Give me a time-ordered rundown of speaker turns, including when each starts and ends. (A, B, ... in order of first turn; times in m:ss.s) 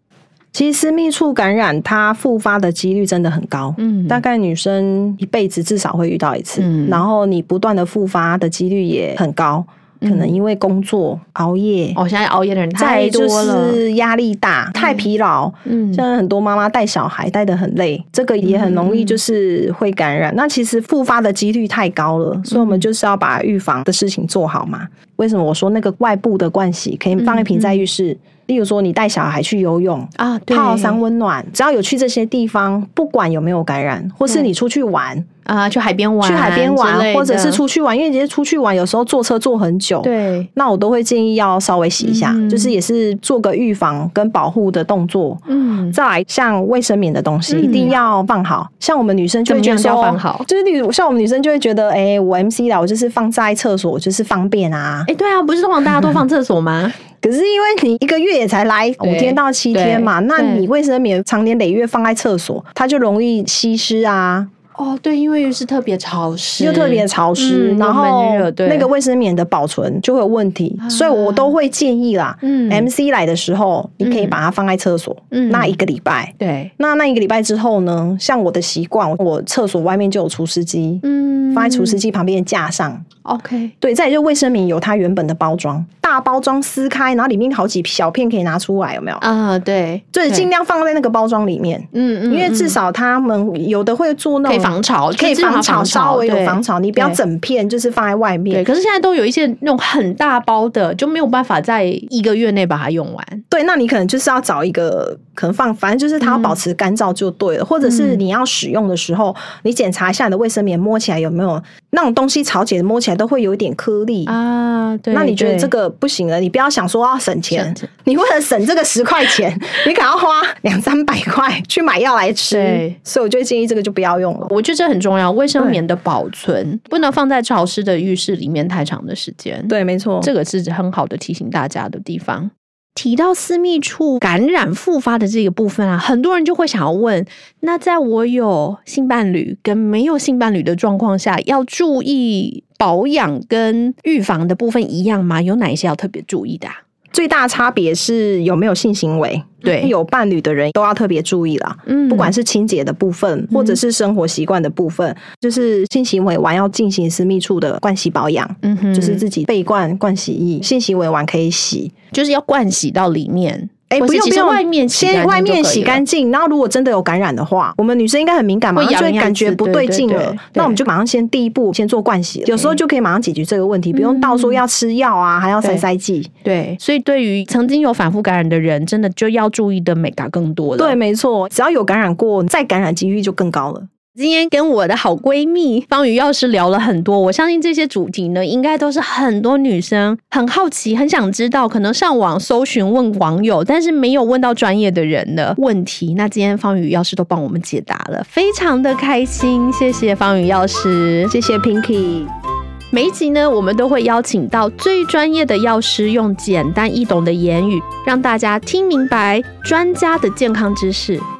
0:00.5-0:12.0 A
0:03.8-0:04.2 B
0:06.6-0:07.0 B
0:10.0-0:10.4 B
0:11.9-0:13.8 B
0:12.8-0:35.3 A
0:14.8-0:15.0 B
0:15.6-0:16.0 B
0:18.4-0:19.2 B
0:22.5-0:22.8 B
0:27.2-0:27.8 B
0:30.2-0:31.0 B
0:35.4-0:37.6 B
0:36.2-0:55.1 A
0:40.0-0:40.5 B
0:42.0-0:42.7 B
0:45.5-0:46.0 B
0:47.5-0:48.0 B
0:49.4-0:50.4 B
0:55.1-0:56.9 B
0:57.2-1:04.5 A
0:59.0-1:00.7 B
1:04.7-1:08.9 B
1:06.6-1:23.0 A
1:10.8-1:11.5 B
1:12.4-1:12.9 B
1:14.0-1:14.4 B
1:15.3-1:15.8 B
1:16.4-1:16.7 B
1:21.0-1:22.0 B
1:23.2-1:23.7 B
1:23.8-1:29.2 A
1:29.2-1:30.5 B
1:30.1-1:38.6 A
1:31.9-1:32.8 B
1:34.4-1:37.2 B
1:38.5-1:43.4 B
1:43.5-1:54.4 A
1:46.2-1:46.6 B
1:47.8-1:48.2 B
1:54.3-1:55.7 B
1:55.1-2:04.5 A
1:57.5-1:57.9 B
2:02.5-2:03.0 B
2:04.5-2:26.8 B
2:09.7-2:10.3 A
2:27.1-2:41.9 A
2:29.6-2:29.9 B
2:31.8-2:32.3 B
2:33.5-2:33.8 B
2:38.6-2:39.2 B
2:42.1-2:46.0 B
2:43.9-2:56.3 A
2:48.7-2:50.8 B
2:52.4-2:52.8 B
2:53.9-2:54.6 B
2:56.4-3:01.0 B
3:00.8-3:03.9 A
3:04.1-3:21.3 B
3:21.3-3:22.3 A
3:22.9-3:31.2 B